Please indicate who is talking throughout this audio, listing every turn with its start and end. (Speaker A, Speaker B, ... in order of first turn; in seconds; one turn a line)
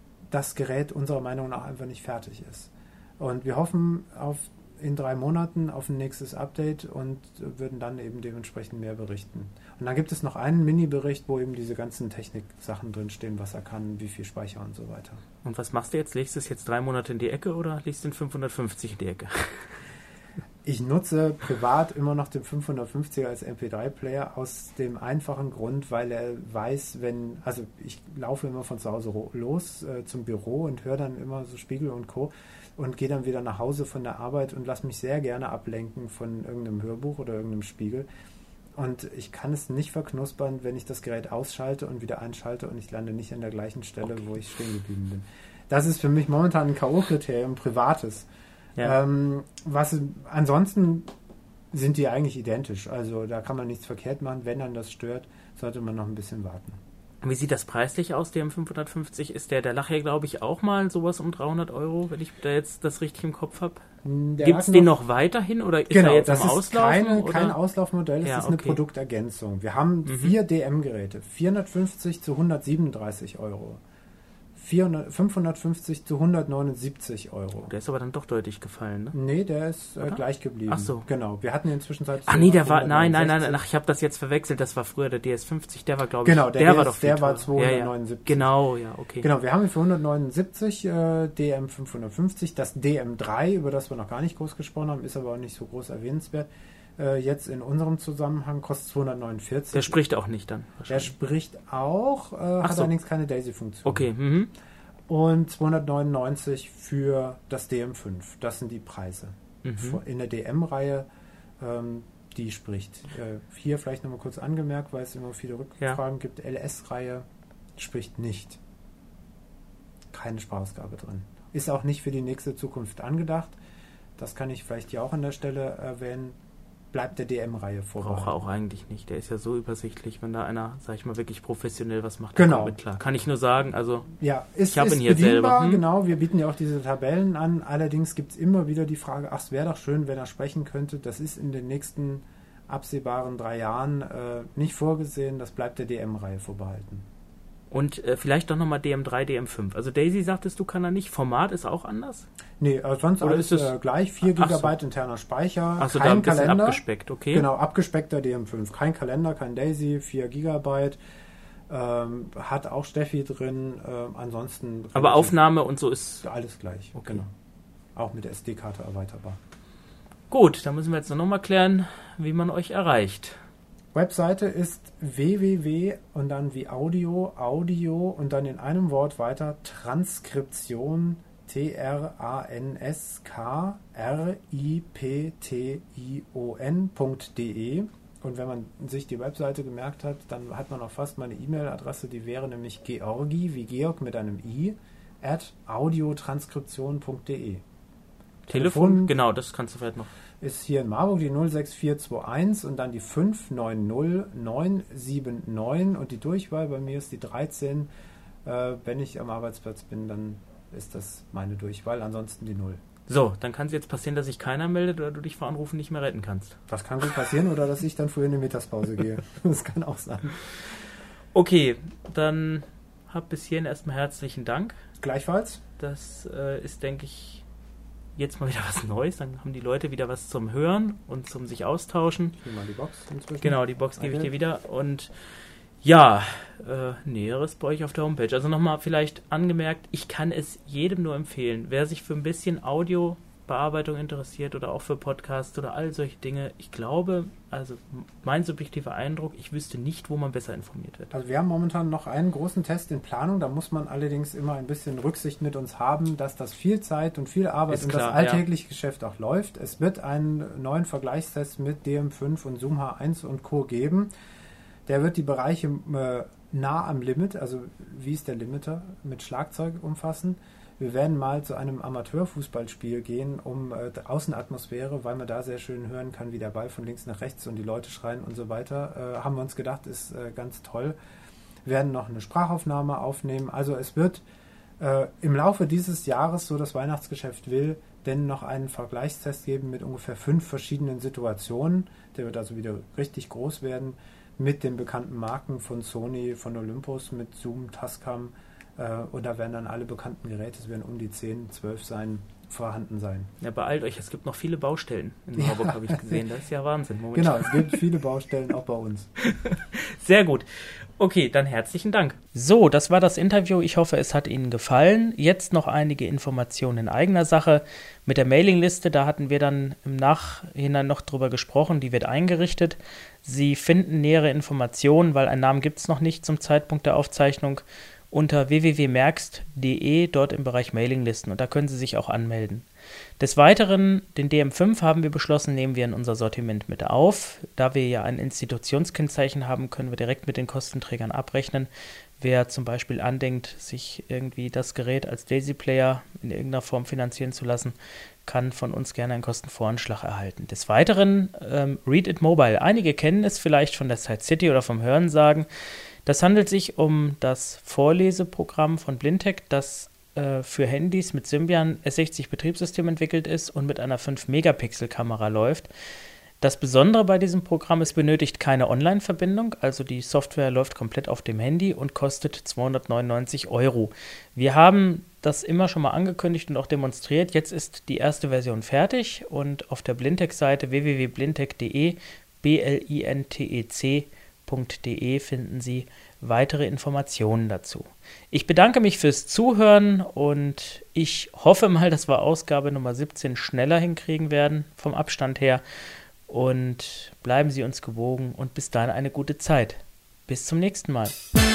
Speaker A: 0.3-15.2
Speaker B: 15.4-19.7
Speaker A: 20.6-38.1
Speaker A: 38.8-48.3
Speaker A: 48.8-51.1
Speaker A: 51.7-56.8
Speaker B: 57.2-63.8
Speaker A: 64.0-64.9
Speaker B: 64.4-67.6
Speaker A: 65.9-73.8
Speaker B: 68.2-68.8
Speaker B: 70.0-70.4
Speaker A: 74.5-77.7
Speaker B: 77.6-79.2
Speaker A: 79.1-83.6
Speaker B: 80.0-81.0
Speaker B: 82.2-89.3
Speaker A: 86.2-88.5
Speaker A: 89.2-100.0
Speaker B: 99.7-101.1
Speaker A: 100.9-104.1
Speaker B: 102.6-102.9
Speaker B: 103.8-104.5
Speaker A: 105.1-111.1
Speaker B: 109.6-110.0
Speaker A: 111.6-117.2
Speaker A: 117.8-118.6
Speaker A: 120.1-123.6
Speaker A: 124.2-126.4
Speaker A: 126.9-128.3
Speaker B: 128.0-134.1
Speaker A: 132.3-132.8
Speaker A: 134.2-147.1
Speaker B: 134.7-135.8
Speaker B: 147.7-152.3
Speaker A: 152.6-161.0
Speaker B: 153.2-154.7
Speaker B: 155.8-157.5
Speaker A: 161.7-165.4
Speaker B: 164.9-166.2
Speaker A: 166.2-167.3
Speaker B: 166.9-167.2
Speaker A: 167.9-169.4
Speaker B: 170.3-173.4
Speaker A: 173.9-197.6
Speaker B: 198.5-200.1
Speaker A: 198.5-199.1
Speaker A: 200.4-207.9
Speaker A: 208.4-212.8
Speaker B: 213.1-216.6
Speaker A: 216.7-220.4
Speaker B: 221.3-224.8
Speaker A: 225.0-225.6
Speaker B: 225.8-227.4
Speaker B: 228.2-232.4
Speaker A: 232.4-234.3
Speaker B: 233.4-235.1
Speaker B: 235.8-251.1
Speaker A: 251.1-264.1
Speaker B: 257.7-258.4
Speaker A: 264.9-280.9
Speaker A: 281.6-284.2
Speaker A: 284.8-303.3
Speaker B: 303.4-307.8
Speaker A: 305.4-306.2
Speaker A: 307.1-309.1
Speaker B: 309.3-332.7
Speaker B: 333.2-341.7
Speaker B: 342.2-355.5
Speaker B: 356.1-365.7
Speaker B: 366.4-395.6
Speaker B: 396.3-401.2